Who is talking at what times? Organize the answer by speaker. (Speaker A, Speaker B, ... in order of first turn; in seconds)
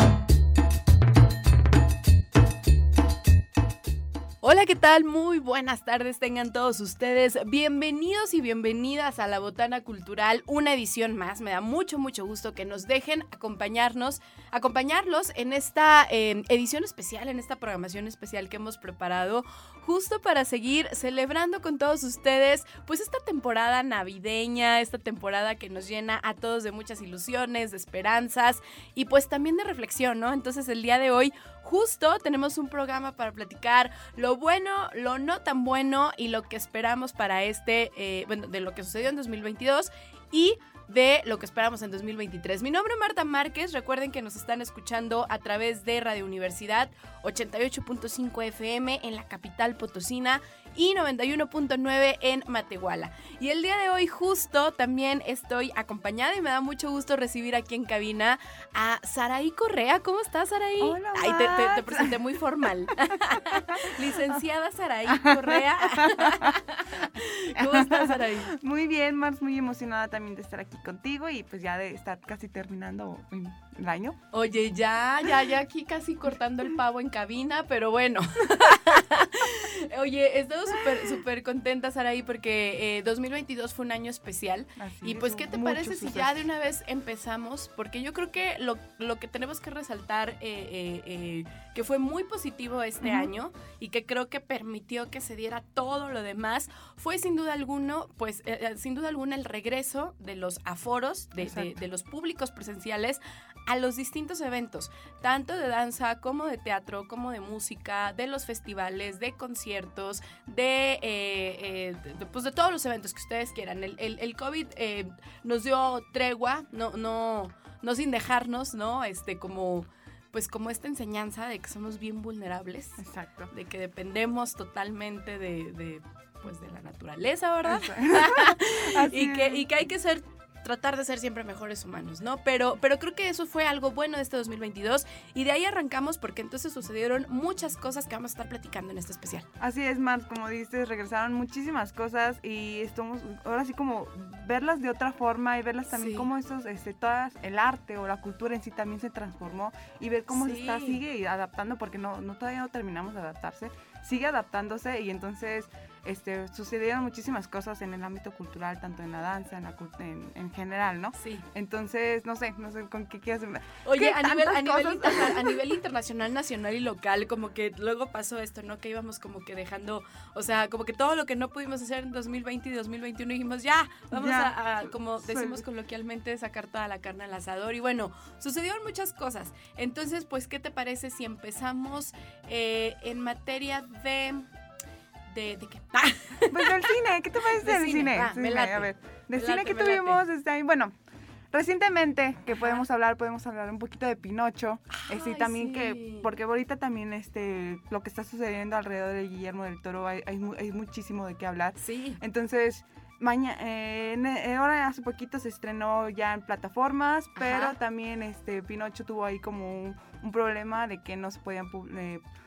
Speaker A: 4.4-68.5, 74.3-139.5, 145.9-146.3, 150.3-151.0, 161.2-161.4, 163.8-184.5, 185.3-186.8, 187.6-190.2, 192.6-192.8, 194.9-196.3, 201.8-202.2, 207.4-207.8
Speaker B: 60.8-62.2, 63.4-64.4, 65.1-66.6, 67.5-74.2, 84.8-86.5, 93.0-93.3, 101.4-101.8, 123.0-123.5, 127.6-129.7, 139.6-165.6, 174.1-175.6, 186.5-190.9, 191.5-212.2